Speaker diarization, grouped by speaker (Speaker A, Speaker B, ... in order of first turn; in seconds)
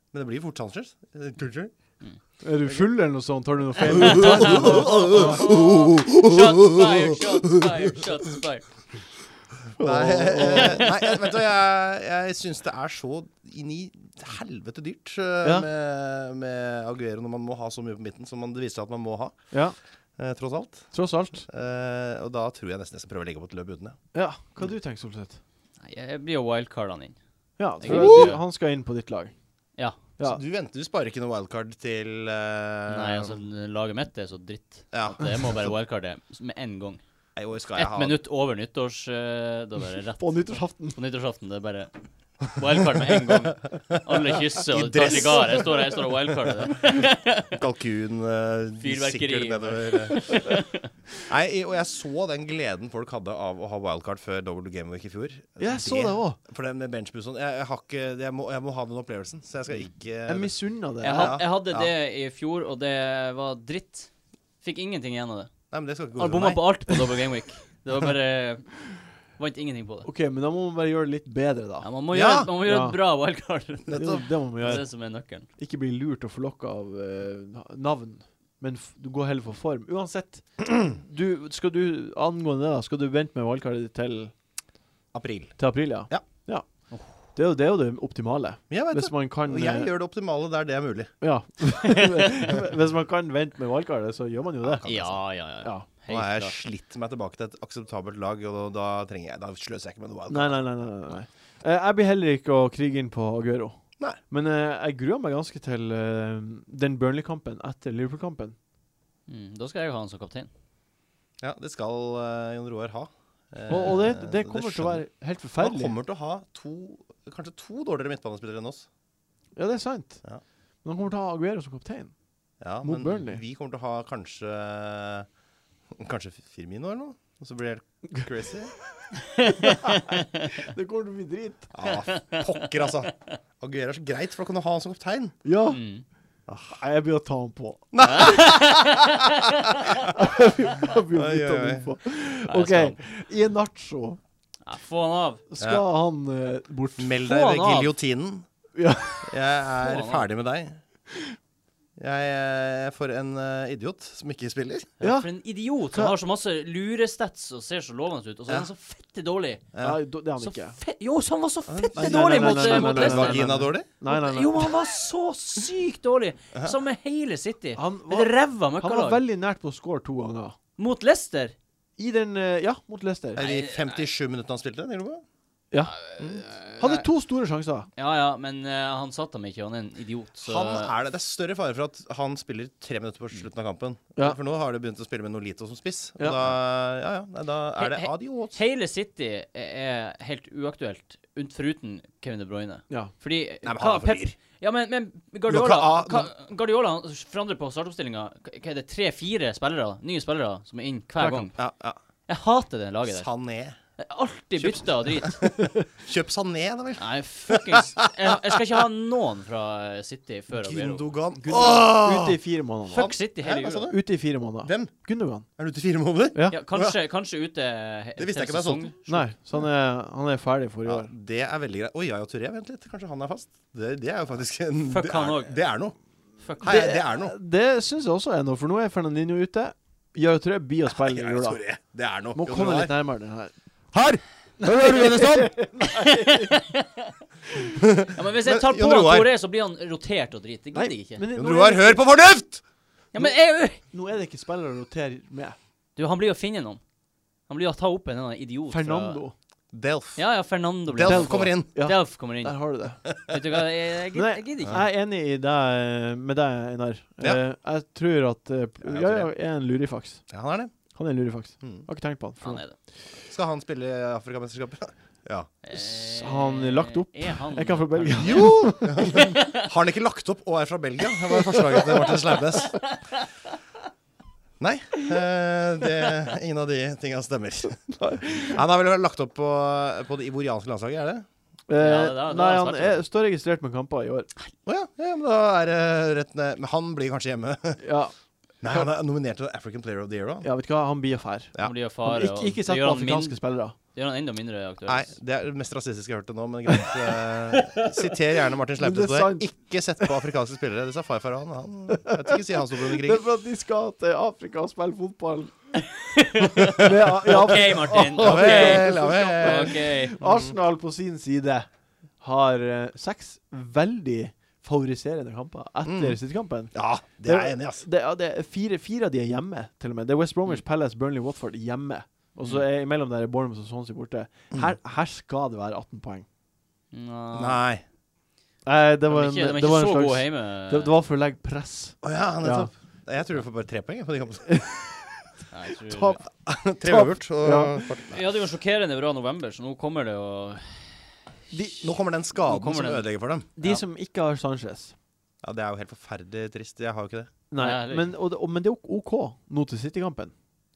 Speaker A: 0.1-2.0, 2.6-2.9, 4.0-7.7, 9.8-19.4, 20.2-20.9, 21.5-24.0, 27.8-28.3, 30.2-33.4, 34.9-35.7, 37.4-38.2, 44.7-50.3, 51.3-61.9, 65.7-66.7, 72.1-72.5, 73.8-74.2, 85.1-86.2, 88.7-91.1, 94.6-95.2, 96.1-100.7, 111.4-115.0, 115.6-118.9, 122.6-125.3, 125.9-128.8, 131.7-135.3, 136.5-136.8, 137.9-139.0, 141.1-141.9, 147.0-148.4, 149.2-150.8, 152.0-154.9, 159.7-160.0, 161.7-163.9, 173.3-175.2, 176.2-176.4, 180.4-188.6, 193.6-194.3, 195.5-196.3, 201.6-202.0, 203.1-203.8, 204.6-205.4, 205.9-208.6, 210.5-212.4, 213.4-214.0, 214.6-214.9, 215.6-217.0, 218.2-219.2, 220.8-225.9, 226.6-227.3, 230.9-232.9, 233.9-235.5, 237.8-239.3, 241.3-242.6, 249.7-250.3, 250.8-251.7, 258.8-259.3, 260.3-260.7, 263.3-265.5, 268.1-272.8, 274.6-281.2, 284.6-287.8, 288.6-290.5, 294.9-303.3, 307.5-310.5, 315.8-316.2, 316.7-317.8, 327.3-327.8, 332.0-334.6, 336.4-338.2, 341.8-343.5, 345.4-347.3
Speaker B: 2.4-5.4, 9.8-10.9, 19.5-19.8, 20.9-21.5, 24.1-25.4, 27.6-29.3, 40.2-41.0, 55.6-56.4, 60.3-61.4, 70.0-71.9, 72.6-73.0, 73.9-74.9, 75.6-84.3, 85.6-89.9, 91.2-95.0, 95.6-95.8, 100.3-108.5, 113.7-115.9, 119.5-120.2, 120.8-122.1, 122.8-123.4, 129.5-131.7, 135.4-135.8, 136.7-138.4, 140.1-144.2, 145.5-147.3, 148.7-149.3, 155.0-155.3, 159.8-160.8, 161.9-164.7, 167.7-170.6, 172.0-173.4, 176.8-177.9, 186.2-186.5, 201.2-201.5, 205.2-205.8, 211.4-213.2, 213.9-215.4, 216.3-216.6, 219.1-221.1, 226.6-231.6, 232.3-233.5, 234.6-236.6, 240.7-242.0, 243.2-245.6, 248.7-249.3, 251.0-253.1, 254.1-260.2, 260.9-262.6, 265.7-269.0, 277.9-278.6, 281.7-284.3, 287.8-288.1, 290.4-293.8, 298.8-300.1, 301.9-305.5, 306.8-326.2, 328.6-332.7, 334.5-334.9, 335.7-336.2, 336.8-337.8, 341.5-341.9, 343.6-344.9, 347.5-350.3
Speaker C: 4.1-8.8, 25.8-27.2, 27.8-28.4, 32.9-37.0, 37.7-47.6, 48.8-50.9, 61.0-64.1, 64.6-65.5, 66.2-70.1, 71.8-75.5, 86.9-87.2, 94.8-96.5, 109.3-110.5, 129.8-130.1, 131.9-133.1, 135.7-136.0, 138.0-139.5, 142.5-143.0, 144.6-145.4, 147.3-147.9, 149.8-150.2, 155.0-159.7, 160.4-169.2, 170.8-171.5, 173.4-174.1, 176.0-177.1, 177.9-180.9, 187.8-201.6, 202.3-203.3, 204.0-205.5, 207.0-211.1, 212.9-213.9, 216.5-219.1, 224.9-225.6, 226.4-226.7, 235.9-237.1, 238.1-241.2, 243.1-243.8, 245.9-246.8, 247.5-249.2, 250.2-254.8, 262.4-262.7, 265.6-269.7, 271.5-273.2, 281.8-283.0, 291.6-295.1, 306.0-310.2, 322.4-322.6, 326.9-327.6, 329.1-330.9, 335.5-336.2, 338.1-341.1, 342.4-343.0, 347.6-348.1